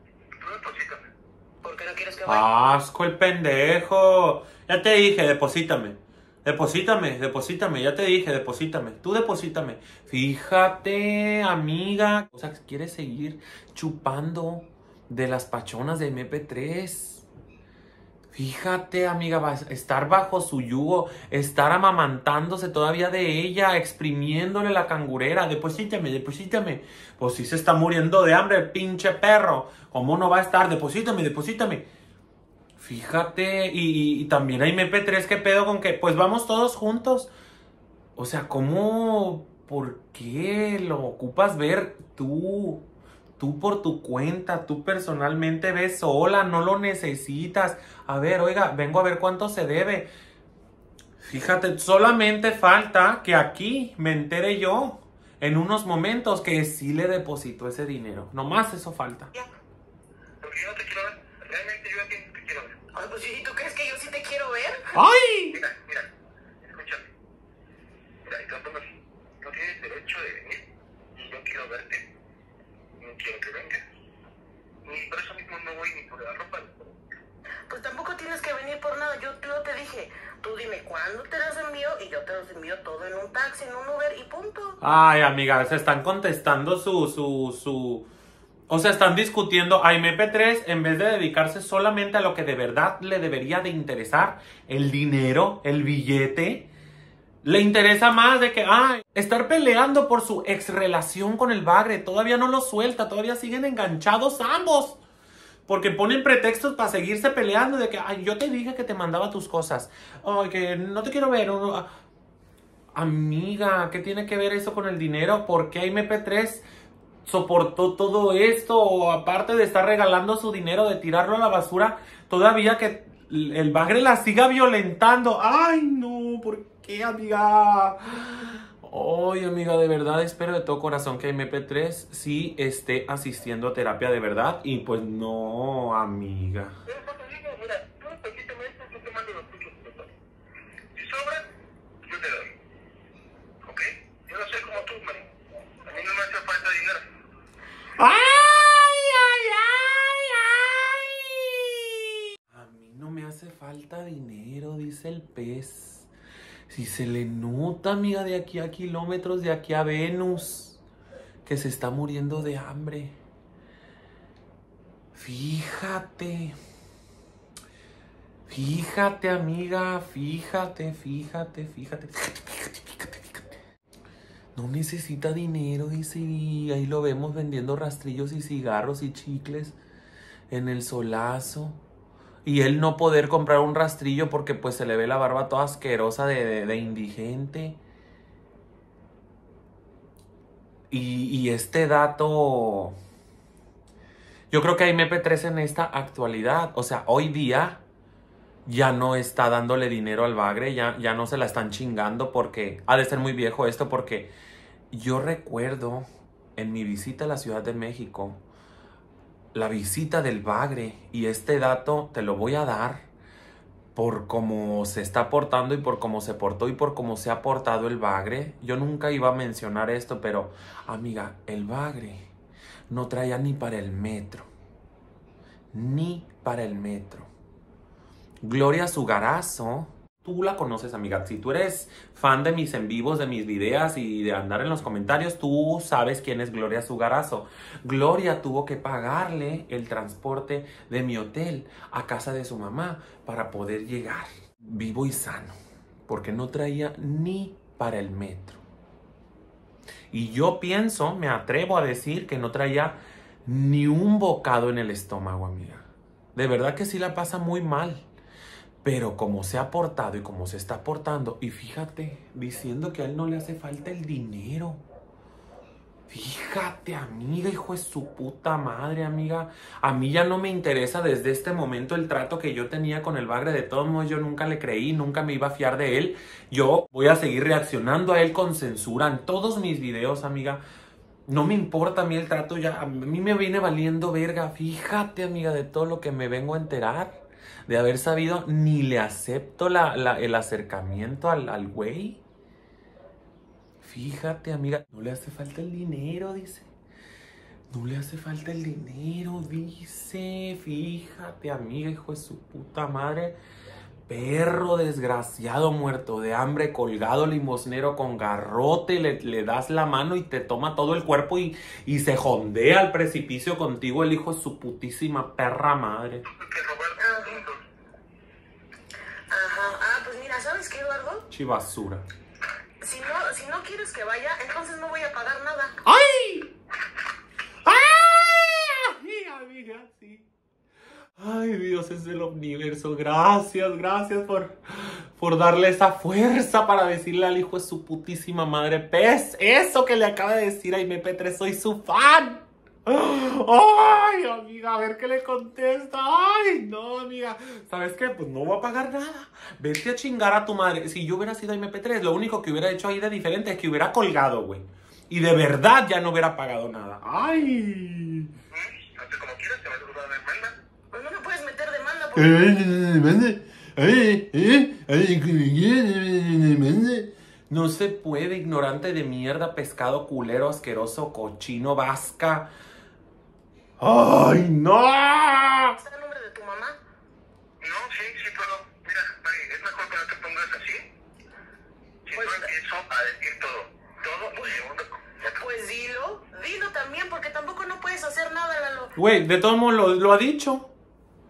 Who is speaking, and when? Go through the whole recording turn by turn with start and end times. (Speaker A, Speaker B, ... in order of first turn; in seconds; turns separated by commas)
Speaker A: 0.4-1.1, Speaker B: 1.6-2.5, Speaker C: 2.2-17.2, Speaker C: 18.3-31.8, Speaker C: 32.8-37.3, Speaker C: 38.1-42.8, Speaker C: 43.4-50.1, Speaker C: 51.2-59.3, Speaker A: 60.4-62.8, Speaker B: 62.9-64.9, Speaker C: 64.9-65.6, Speaker A: 65.5-66.1, Speaker A: 66.6-67.1, Speaker A: 68.2-72.0, Speaker A: 73.0-73.8, Speaker A: 74.8-77.0, Speaker B: 77.7-84.8, Speaker C: 84.8-88.0, Speaker C: 88.7-96.7, Speaker C: 97.4-105.0, Speaker C: 105.7-111.9, Speaker C: 112.9-116.6, Speaker C: 117.2-136.8, Speaker A: 136.8-140.1, Speaker A: 140.9-141.4, Speaker A: 142.0-142.5, Speaker A: 143.6-145.3, Speaker A: 145.8-147.0, Speaker C: 148.0-156.1, Speaker C: 156.7-160.8, Speaker C: 161.4-163.2, Speaker C: 165.1-166.6, Speaker C: 168.5-173.6, Speaker C: 174.5-179.8, Speaker C: 180.5-181.8, Speaker C: 182.4-187.8, Speaker C: 190.9-192.9, Speaker C: 194.5-197.8, Speaker C: 198.7-204.3, Speaker C: 204.9-206.1, Speaker C: 206.6-208.4, Speaker C: 209.5-213.1, Speaker C: 213.9-222.3, Speaker C: 222.9-224.5, Speaker C: 225.7-227.3, Speaker C: 228.4-245.6, Speaker C: 246.1-248.6, Speaker C: 250.1-258.1, Speaker C: 258.8-264.8, Speaker C: 266.1-280.6, Speaker C: 281.3-292.2, Speaker C: 293.8-296.7, Speaker C: 297.7-303.4, Speaker C: 304.1-316.2, Speaker A: 316.3-317.6, Speaker B: 317.0-317.4, Speaker B: 319.3-321.3, Speaker C: 321.3-322.0, Speaker B: 322.8-325.8, Speaker C: 325.8-326.5, Speaker C: 327.6-330.3, Speaker C: 331.2-358.3, Speaker A: 358.5-360.5, Speaker B: 360.9-362.6, Speaker C: 362.1-372.5, Speaker C: 373.8-375.8, Speaker B: 375.8-376.8, Speaker A: 377.6-380.8, Speaker A: 382.1-385.4, Speaker B: 382.1-382.5, Speaker B: 385.3-388.9, Speaker C: 388.9-390.7